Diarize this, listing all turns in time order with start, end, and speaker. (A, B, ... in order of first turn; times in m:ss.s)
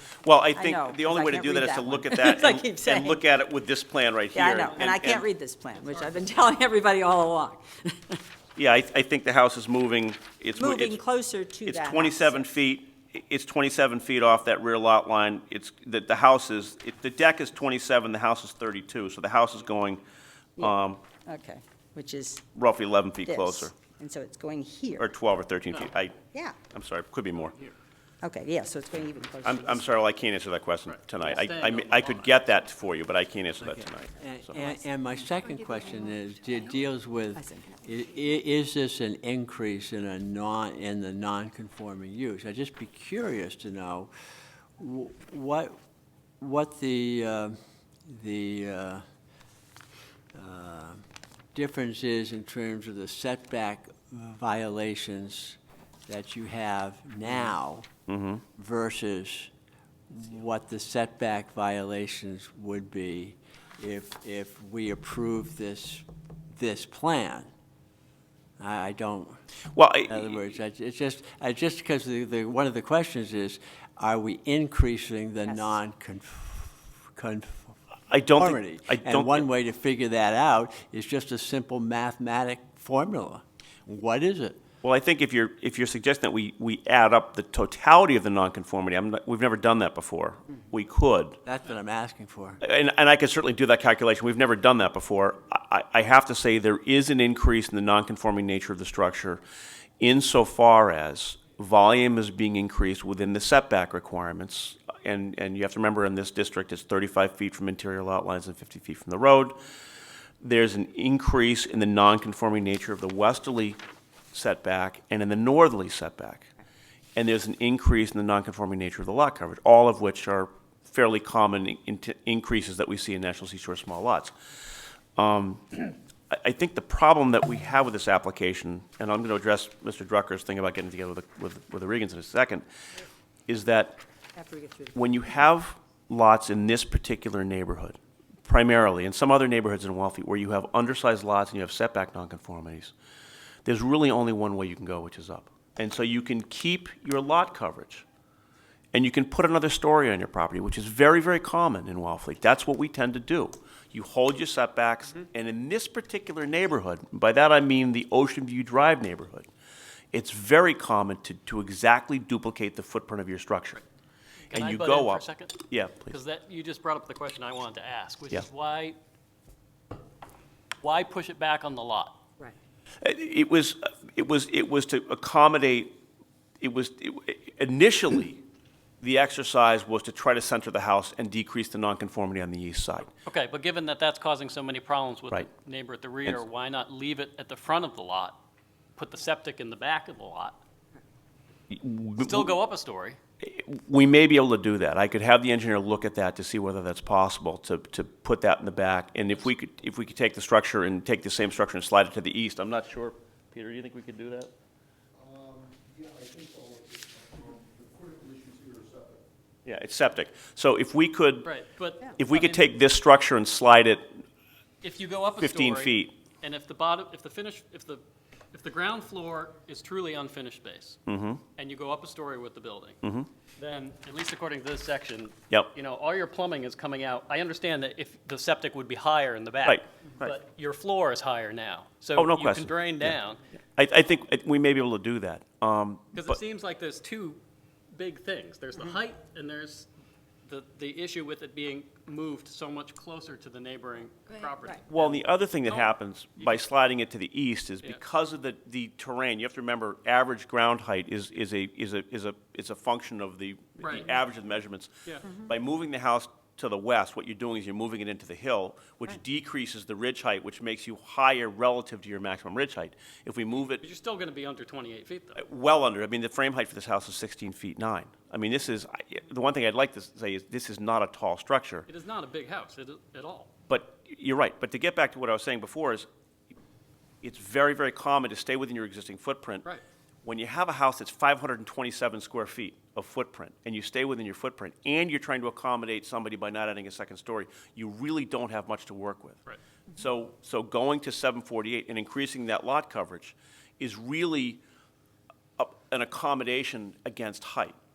0:00.2-0:05.2 A
0:00.5-0:03.2 B
0:04.3-0:08.2 B
0:05.9-0:06.2 C
0:08.6-0:11.0 A
0:10.6-0:12.5 B
0:11.6-0:20.0 A
0:20.6-0:22.4 B
0:20.6-0:21.0 A
0:22.6-0:23.7 A
0:23.2-0:25.1 B
0:25.0-0:26.2 A
0:26.7-0:27.6 A
0:28.2-0:29.8 B
0:29.4-0:34.6 A
0:30.9-0:32.3 C
0:33.6-0:44.1 D
0:37.4-0:37.8 B
0:44.8-0:45.8 D
0:46.4-0:49.0 D
0:50.3-0:51.0 D
0:51.5-0:57.9 D
0:58.1-0:58.4 A
0:58.6-0:59.5 D
1:00.1-1:07.5 D
1:08.6-1:09.4 D
1:09.7-1:10.3 A
1:10.1-1:17.8 D
1:18.1-1:19.5 A
1:18.3-1:24.6 D
1:24.8-1:31.4 A
1:31.4-1:32.6 D
1:32.6-1:39.4 A
1:40.0-1:49.6 A
1:50.4-1:53.8 A
1:54.3-1:56.5 A
1:57.2-2:04.3 A
2:05.2-2:12.6 A
2:13.5-2:14.0 A
2:14.4-2:15.0 B
2:15.0-2:22.9 A
2:23.7-2:28.0 A
2:28.9-2:39.5 A
2:40.1-2:43.8 A
2:44.5-2:46.1 A
2:44.5-2:45.6 C
2:46.1-2:49.0 C
2:50.8-2:52.2 C
2:53.0-2:55.9 A
2:56.6-2:58.4 A
2:59.0-3:03.1 A
3:03.3-3:08.4 C
3:09.0-3:10.6 C
3:11.7-3:12.5 A
3:12.2-3:13.2 C
3:13.4-3:24.5 A
3:25.2-3:29.2 E
3:29.7-3:31.5 A
3:31.4-3:32.7 C
3:32.2-3:34.2 A
3:34.8-3:41.0 C
3:35.4-3:36.1 A
3:41.1-3:41.4 A
3:41.6-3:43.0 C
3:43.0-3:43.3 A
3:43.6-3:53.4 C
3:49.6-3:50.3 A
3:52.2-3:53.2 A
3:53.8-3:56.4 A
3:56.1-3:57.4 C
3:57.9-3:59.9 C
4:00.5-4:06.6 C
4:04.9-4:23.8 A
4:13.8-4:14.2 C
4:23.8-4:25.4 C
4:25.4-4:31.9 A
4:31.9-4:33.5 C
4:33.7-4:36.1 A
4:37.2-4:39.7 A
4:40.2-4:49.4 A
4:50.0-4:54.6 A
4:55.6-4:57.8 A